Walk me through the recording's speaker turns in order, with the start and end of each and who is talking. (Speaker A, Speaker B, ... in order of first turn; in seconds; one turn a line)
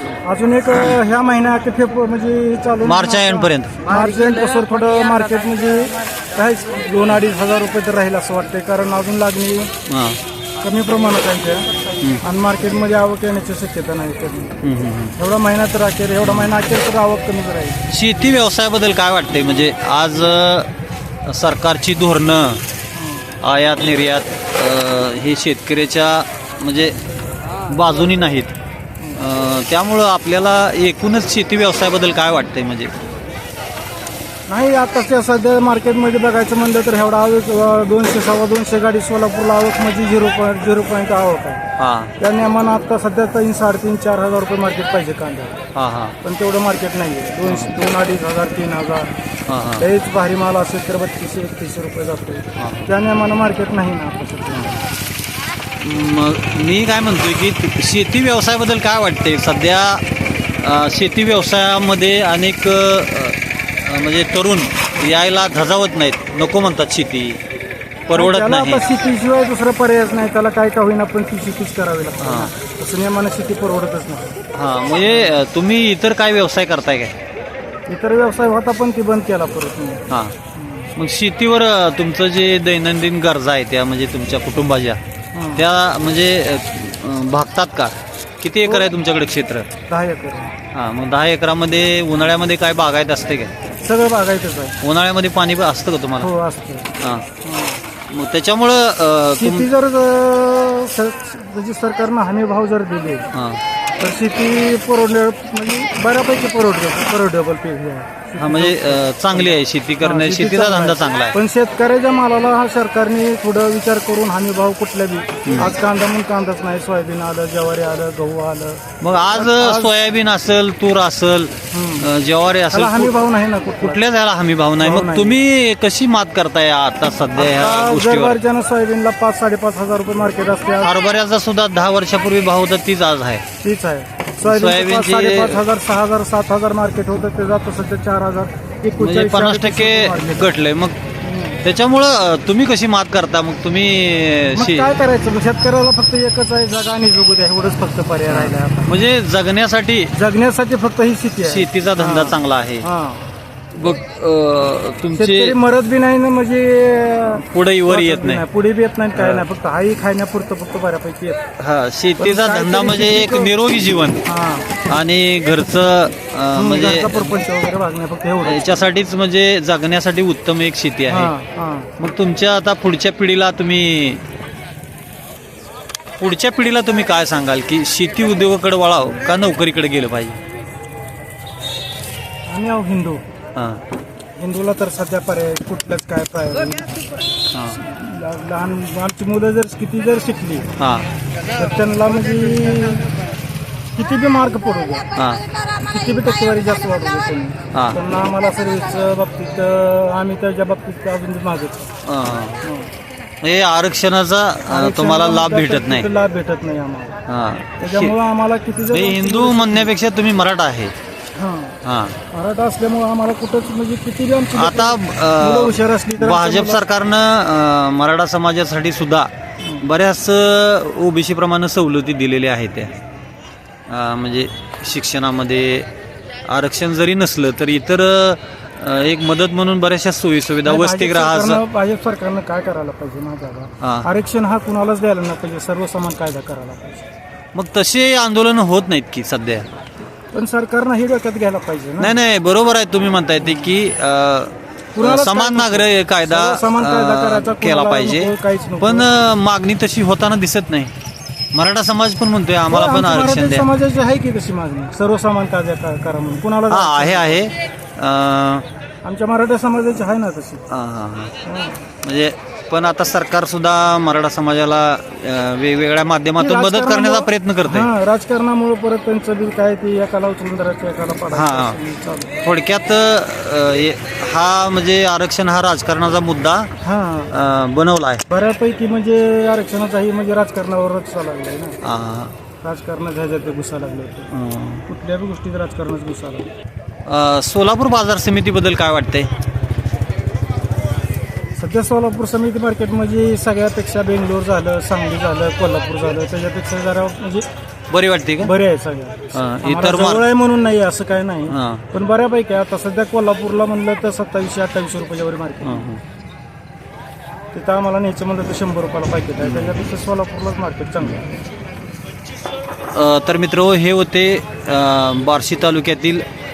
Speaker A: 0.2-9.7
Speaker B: 2.8-3.9
Speaker B: 9.9-10.2
Speaker A: 10.6-14.6
Speaker B: 14.6-15.1
Speaker A: 15.2-17.8
Speaker B: 17.9-20.7
Speaker B: 21.2-22.6
Speaker A: 22.9-23.3
Speaker B: 23.4-27.0
Speaker B: 27.7-28.5
Speaker B: 29.1-32.9
Speaker A: 34.5-41.6
Speaker B: 41.8-42.1
Speaker A: 42.2-45.6
Speaker B: 45.8-46.2
Speaker A: 46.2-49.1
Speaker B: 49.5-49.9
Speaker A: 49.8-54.8
Speaker B: 52.6-52.9
Speaker B: 55.8-60.0
Speaker B: 60.6-67.4
Speaker B: 68.1-68.8
Speaker A: 68.1-74.4
Speaker B: 72.2-72.5
Speaker B: 74.5-77.1
Speaker A: 75.0-75.4
Speaker A: 77.9-80.0
Speaker B: 80.1-80.3
Speaker A: 80.5-80.9
Speaker B: 80.9-85.0
Speaker A: 85.3-85.6
Speaker B: 85.5-89.7
Speaker A: 88.6-89.0
Speaker A: 89.9-90.5
Speaker B: 90.7-93.5
Speaker A: 93.8-94.8
Speaker B: 94.8-96.3
Speaker A: 96.2-96.9
Speaker B: 97.0-97.2
Speaker A: 97.4-97.8
Speaker B: 98.1-99.7
Speaker A: 99.4-103.3
Speaker B: 103.3-103.6
Speaker A: 104.0-119.9
Speaker B: 108.4-111.4
Speaker B: 115.5-115.7
Speaker B: 119.0-123.2
Speaker A: 121.7-122.1
Speaker A: 122.7-124.0
Speaker B: 123.8-128.4
Speaker A: 124.8-125.4
Speaker A: 127.3-130.9
Speaker B: 130.8-133.4
Speaker A: 133.6-140.5
Speaker B: 134.4-135.6
Speaker B: 139.0-141.0
Speaker A: 141.2-141.6
Speaker B: 141.6-144.9
Speaker A: 144.5-148.9
Speaker B: 148.3-150.1
Speaker A: 150.1-153.3
Speaker B: 151.4-152.8
Speaker B: 153.8-155.6
Speaker A: 155.1-161.4
Speaker B: 157.3-158.4
Speaker B: 159.2-159.4
Speaker B: 161.6-164.2
Speaker A: 162.2-163.5
Speaker A: 164.2-164.9
Speaker B: 164.9-167.4
Speaker A: 166.5-168.9
Speaker B: 168.4-171.3
Speaker A: 171.1-171.9
Speaker B: 172.0-174.2
Speaker B: 176.2-180.4
Speaker A: 182.5-183.2
Speaker B: 183.6-183.8
Speaker A: 184.4-187.0
Speaker B: 187.5-187.8
Speaker A: 187.7-190.7
Speaker B: 190.8-191.1
Speaker A: 191.5-193.0
Speaker A: 193.9-195.0
Speaker A: 195.8-201.9
Speaker B: 197.7-198.0
Speaker B: 202.0-202.6
Speaker A: 202.6-202.9
Speaker B: 203.4-206.1
Speaker A: 204.6-207.2
Speaker B: 207.3-208.1
Speaker A: 207.8-209.9
Speaker B: 208.9-210.9
Speaker A: 211.4-211.8
Speaker B: 211.8-212.2
Speaker A: 212.3-216.8
Speaker B: 214.5-219.3
Speaker B: 219.8-222.9
Speaker B: 223.9-225.9
Speaker B: 226.5-231.6
Speaker A: 230.6-237.0
Speaker B: 233.8-234.1
Speaker B: 237.5-239.7
Speaker A: 240.3-242.1
Speaker B: 242.0-250.9
Speaker A: 244.9-249.1
Speaker B: 251.5-253.6
Speaker A: 252.7-257.5
Speaker B: 256.7-258.6
Speaker A: 259.0-260.6
Speaker B: 260.7-261.3
Speaker A: 261.4-261.9
Speaker B: 262.0-267.9
Speaker A: 266.4-272.4
Speaker B: 271.3-271.8
Speaker B: 272.4-276.7
Speaker A: 276.8-277.3
Speaker B: 277.3-278.2
Speaker A: 278.3-281.8
Speaker B: 281.8-282.4
Speaker A: 282.6-284.3
Speaker B: 284.3-284.9
Speaker A: 284.9-286.5
Speaker B: 287.1-289.3
Speaker A: 291.6-297.4
Speaker B: 297.9-298.5
Speaker A: 298.4-305.9
Speaker B: 299.3-300.2
Speaker B: 301.5-301.9
Speaker B: 305.6-306.0
Speaker A: 307.5-311.4
Speaker B: 309.4-309.8
Speaker B: 312.9-316.2